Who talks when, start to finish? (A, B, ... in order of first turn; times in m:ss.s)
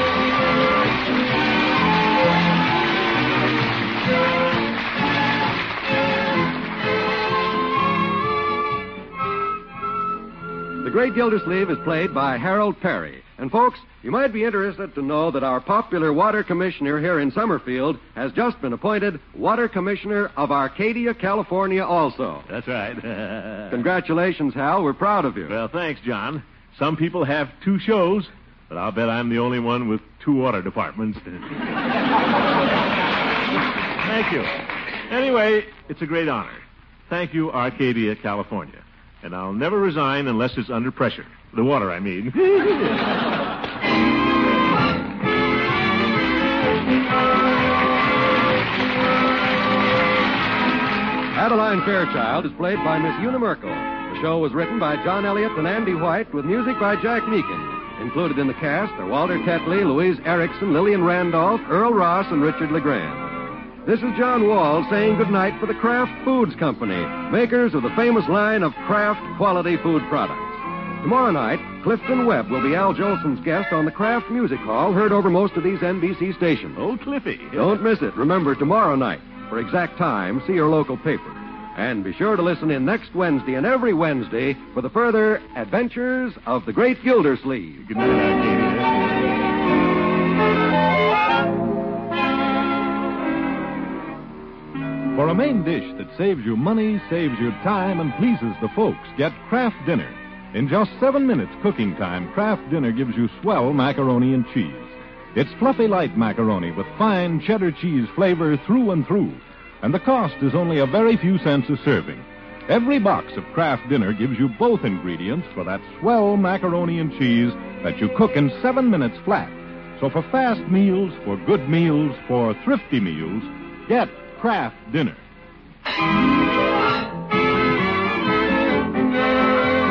0:10.8-0:22.4 A
0:22.5-0:23.8 B
0:23.7-0:25.6 A
0:25.5-0:31.5 B
0:34.0-0:34.5 B
0:35.1-0:43.0 B
0:51.3-1:16.8 A
1:16.8-1:17.8 B
1:17.5-1:27.8 A
1:27.8-1:29.4 B
1:35.1-2:05.2 C